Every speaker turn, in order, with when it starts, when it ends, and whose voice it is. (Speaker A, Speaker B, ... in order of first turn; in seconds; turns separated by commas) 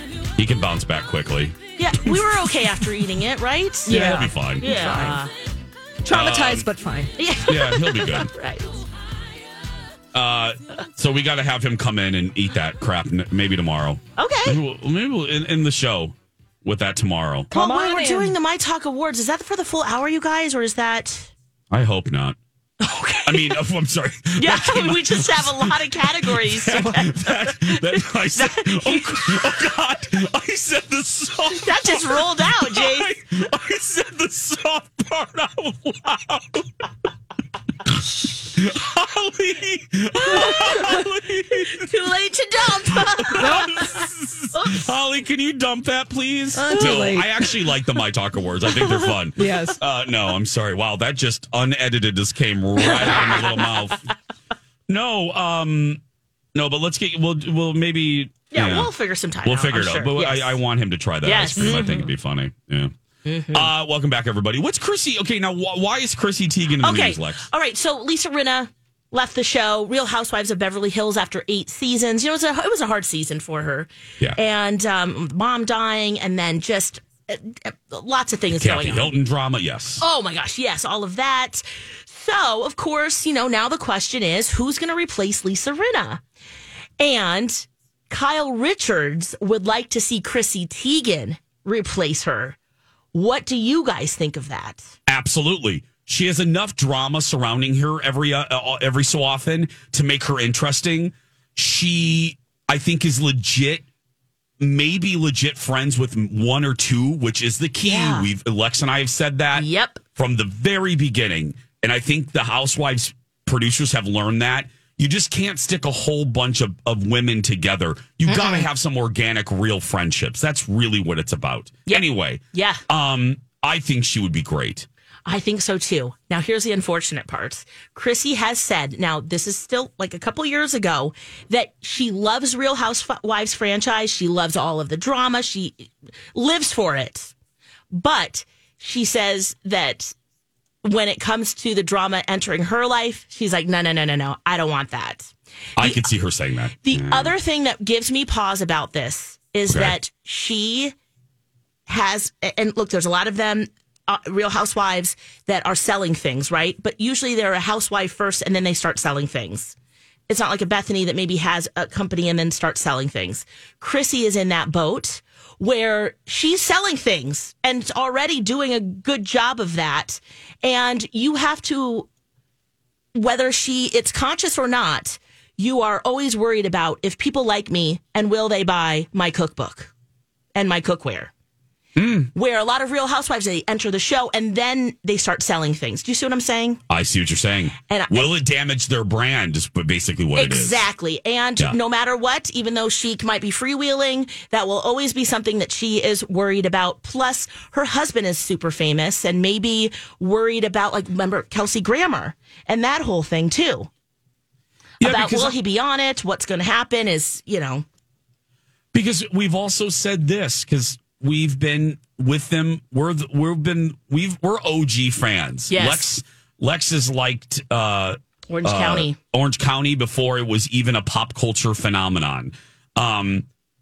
Speaker A: 0.4-1.6, Speaker B: 1.8-5.3, Speaker C: 3.9-5.2, Speaker A: 3.9-4.8, Speaker C: 6.1-7.1, Speaker A: 6.1-6.7, Speaker B: 7.2-8.8, Speaker A: 7.5-8.3, Speaker A: 10.1-17.5, Speaker B: 14.2-14.6, Speaker C: 17.5-18.4, Speaker B: 17.5-21.3, Speaker A: 21.7-22.4, Speaker B: 22.8-23.6, Speaker A: 23.2-36.6, Speaker B: 24.4-27.1, Speaker C: 26.8-27.1, Speaker B: 28.3-29.7, Speaker B: 31.6-33.2, Speaker A: 38.5-41.9, Speaker B: 40.3-41.0, Speaker B: 41.7-43.9, Speaker A: 42.9-54.0, Speaker C: 43.4-43.7, Speaker C: 46.5-47.3, Speaker B: 46.8-47.1, Speaker B: 48.9-49.1, Speaker C: 49.4-49.8, Speaker B: 53.0-53.6, Speaker A: 54.9-56.0, Speaker A: 56.5-58.9, Speaker B: 58.5-60.6, Speaker A: 59.4-62.9, Speaker B: 61.2-62.1, Speaker B: 63.2-63.7, Speaker A: 63.5-67.5, Speaker B: 66.8-79.2, Speaker A: 78.5-80.0, Speaker B: 80.0-86.2, Speaker B: 87.0-92.6, Speaker B: 93.1-94.9, Speaker A: 95.1-103.8, Speaker A: 104.6-124.9, Speaker B: 107.8-108.3, Speaker B: 109.5-110.0, Speaker B: 118.3-118.7, Speaker B: 121.9-122.8, Speaker B: 125.3-137.3, Speaker B: 137.9-140.2, Speaker B: 140.8-146.0, Speaker A: 145.8-147.4, Speaker B: 146.8-150.9, Speaker A: 149.7-150.0, Speaker B: 151.9-159.8, Speaker B: 160.3-172.1, Speaker B: 173.2-179.9, Speaker B: 180.6-181.3, Speaker A: 182.0-182.3, Speaker B: 182.3-186.8, Speaker A: 186.9-190.8, Speaker B: 187.9-188.3, Speaker B: 190.4-203.9, Speaker A: 205.0-205.6, Speaker B: 205.0-207.8, Speaker A: 208.9-223.4, Speaker B: 215.7-216.1, Speaker B: 218.5-219.2